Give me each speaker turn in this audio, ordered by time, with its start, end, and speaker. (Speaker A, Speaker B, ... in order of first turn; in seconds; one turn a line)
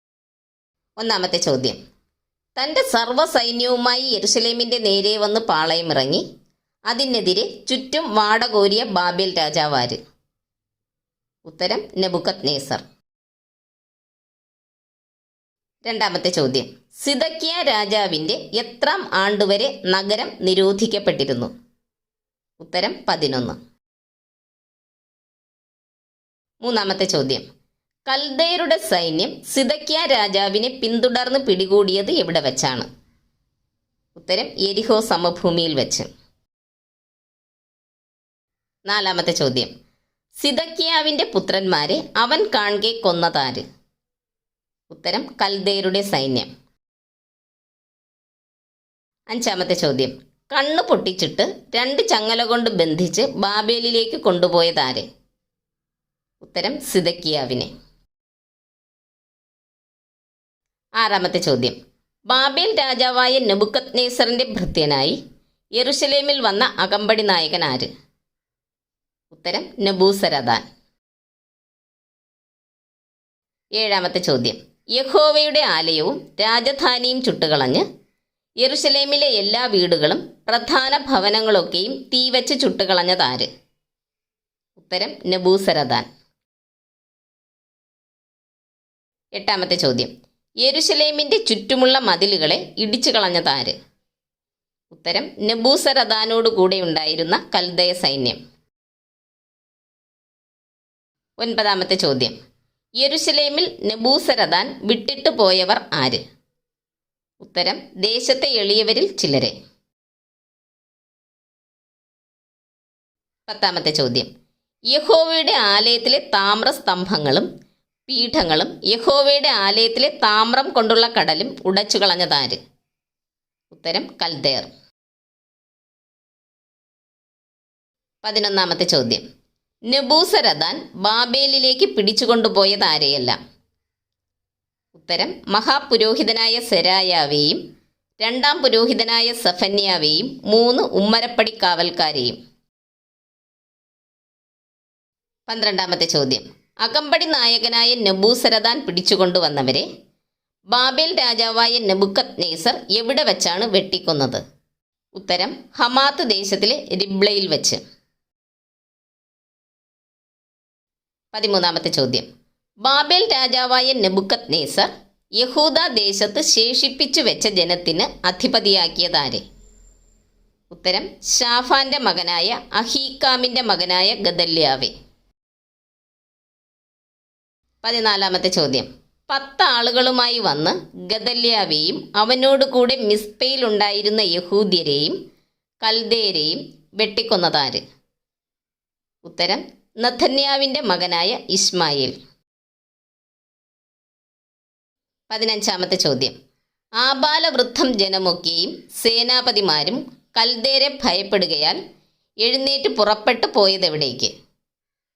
Speaker A: 1.0-1.8
Speaker A: 2.6-6.2
Speaker A: 6.9-10.0
Speaker A: 11.4-12.8
Speaker A: 15.8-21.5
Speaker A: 22.6-23.6
Speaker A: 26.6-27.4
Speaker A: 28.1-32.9
Speaker A: 34.1-36.1
Speaker A: 38.9-39.7
Speaker A: 40.4-43.6
Speaker A: 44.9-46.5
Speaker A: 49.3-55.0
Speaker A: 56.4-57.7
Speaker A: 61.0-61.8
Speaker A: 62.3-65.2
Speaker A: 65.8-67.9
Speaker A: 69.3-70.7
Speaker A: 73.8-77.8
Speaker A: 78.6-83.5
Speaker A: 84.8-86.1
Speaker A: 89.3-90.1
Speaker A: 90.6-93.8
Speaker A: 94.9-98.4
Speaker A: 101.4-102.4
Speaker A: 103.0-106.2
Speaker A: 107.4-109.5
Speaker A: 113.5-114.3
Speaker A: 114.9-117.5
Speaker A: 118.1-122.6
Speaker A: 123.7-124.7
Speaker A: 128.2-129.2
Speaker A: 129.9-133.4
Speaker A: 134.9-137.6
Speaker A: 138.2-142.4
Speaker A: 145.5-149.9
Speaker A: 150.7-154.4
Speaker A: 155.1-157.8
Speaker A: 161.3-162.3
Speaker A: 162.8-169.4
Speaker A: 170.7-174.9
Speaker A: 177.8-185.2
Speaker A: 185.8-187.8
Speaker A: 189.2-192.1
Speaker A: 195.3-196.3
Speaker A: 197.0-201.8
Speaker A: 202.4-204.3